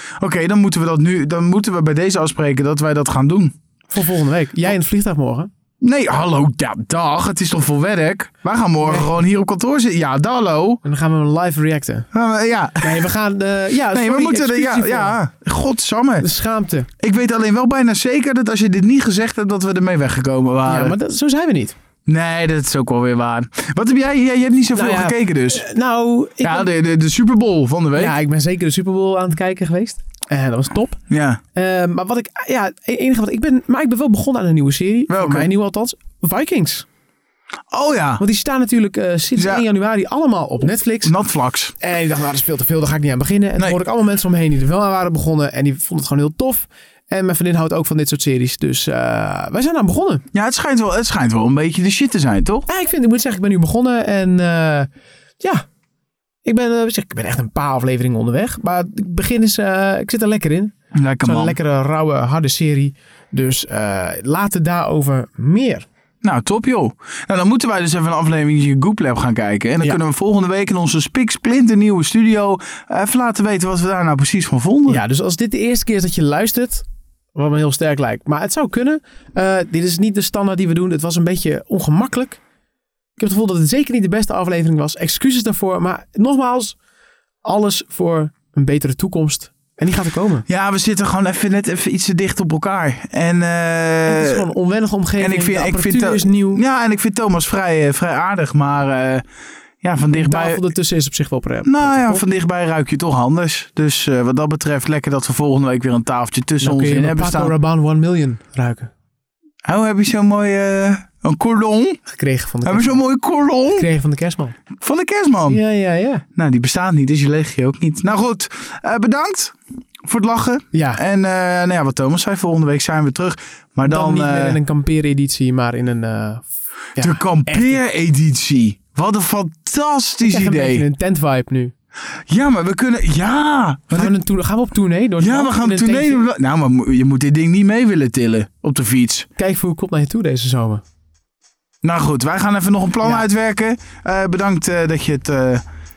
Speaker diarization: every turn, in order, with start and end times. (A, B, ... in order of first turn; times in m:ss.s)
0:00.2-0:03.5 A
0:03.9-0:05.5 B
0:05.8-0:10.8 A
0:08.8-0:09.1 B
0:10.8-0:12.1 B
0:12.1-0:13.1 A
0:12.8-0:15.2 B
0:13.9-0:16.3 A
0:16.2-0:16.9 B
0:17.0-0:21.0 A
0:20.7-0:21.8 B
0:22.1-0:25.6 A
0:24.7-0:26.7 B
0:26.4-0:28.2 A
0:28.0-0:31.0 B
0:31.1-0:31.4 A
0:31.6-0:36.9 B
0:35.1-0:35.5 A
0:37.7-0:38.2 A
0:38.2-0:41.1 B
0:39.4-0:39.6 A
0:41.0-0:41.7 A
0:41.8-0:50.2 B
0:50.3-0:52.7 A
0:52.7-0:54.9 B
0:55.4-0:55.6 B
0:56.4-1:05.9 B
1:01.0-1:01.6 A
1:06.2-1:15.0 A
1:14.9-1:22.4 B
1:23.2-1:26.8 B
1:27.4-1:30.4 B
1:30.5-1:34.4 A
1:34.0-1:36.6 B
1:35.2-1:39.2 A
1:39.8-1:40.6 A
1:40.1-1:42.2 B
1:41.6-1:47.5 A
1:46.6-1:48.9 B
1:49.6-1:52.0 A
1:52.1-1:53.0 B
1:52.6-1:53.9 A
1:53.7-1:54.6 B
1:54.8-1:55.6 A
1:55.5-1:56.2 B
1:56.4-2:04.6 A
2:00.7-2:01.0 B
2:03.9-2:07.8 B
2:07.0-2:10.8 A
2:10.2-2:11.7 B
2:12.3-2:14.1 A
2:13.9-2:16.2 B
2:15.2-2:19.3 A
2:19.4-2:20.8 B
2:21.8-2:25.6 A